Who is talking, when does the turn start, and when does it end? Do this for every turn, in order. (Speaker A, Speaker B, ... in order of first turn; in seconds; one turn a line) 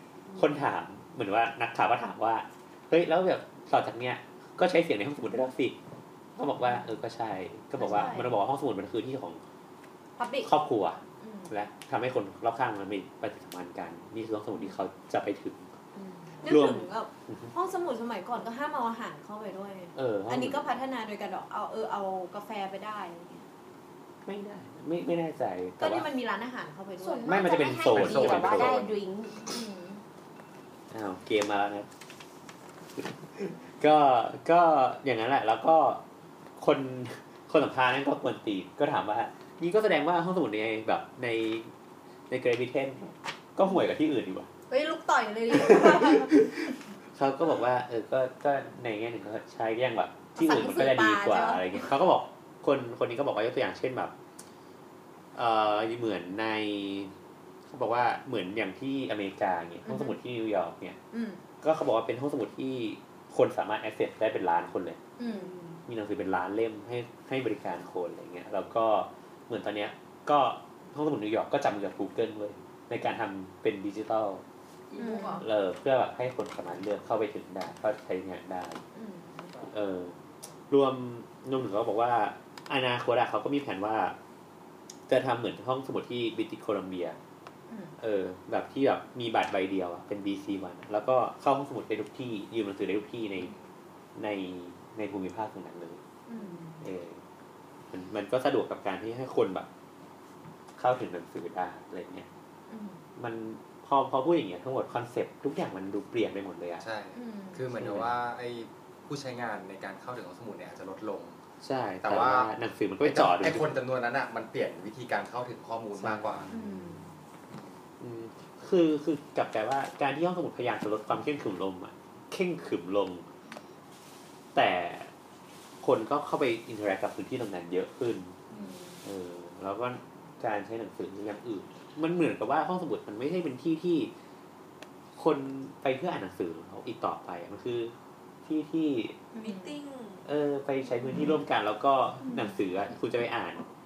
Speaker A: 0.4-5.8
Speaker A: 6.4-9.4
Speaker B: 7.8-8.3
Speaker B: 10.2-10.5
Speaker A: 10.4-15.7
Speaker B: 11.2-11.5
Speaker B: 16.4-23.4
Speaker A: 16.4-17.5
Speaker A: 19.9-20.8
Speaker A: 24.3-26.1
Speaker B: 25.8-27.6
Speaker C: 27.0-29.5
Speaker A: 27.2-28.9
Speaker D: 27.9-28.9
Speaker B: 29.4-30.0
Speaker A: 30.9-31.9
Speaker A: 33.0-36.0
Speaker A: 36.6-41.7
Speaker A: 42.3-44.5
Speaker B: 44.7-46.4
Speaker A: 45.5-54.1
Speaker B: 50.4-51.9
Speaker A: 55.4-57.1
Speaker A: 57.7-61.0
Speaker B: 59.9-60.2
Speaker B: 61.1-61.4
Speaker A: 61.6-65.0
Speaker B: 65.2-65.5
Speaker E: 65.2-65.8
Speaker A: 65.9-74.4
Speaker E: 74.9-75.4
Speaker B: 75.0-75.5
Speaker A: 75.4-78.8
Speaker B: 78.9-79.6
Speaker A: 79.7-80.2
Speaker A: 80.7-84.2
Speaker A: 85.1-87.2
Speaker B: 87.7-88.0
Speaker A: 88.0-93.5
Speaker A: 94.2-96.0
Speaker B: 96.3-96.7
Speaker E: 96.3-96.8
Speaker A: 96.8-97.2
Speaker A: 97.9-99.7
Speaker A: 100.8-102.3
Speaker B: 102.7-103.0
Speaker A: 103.2-106.8
Speaker D: 106.8-111.4
Speaker B: 107.1-107.7
Speaker A: 107.8-108.2
Speaker A: 111.6-113.8
Speaker D: 112.0-112.5
Speaker D: 113.0-116.6
Speaker A: 116.0-117.0
Speaker B: 116.5-117.1
Speaker A: 118.0-123.3
Speaker A: 124.5-125.1
Speaker A: 125.8-128.4
Speaker B: 128.5-129.0
Speaker A: 129.0-134.1
Speaker A: 135.2-137.9
Speaker A: 138.4-139.2
Speaker B: 139.3-139.9
Speaker E: 139.4-140.2
Speaker A: 140.2-143.6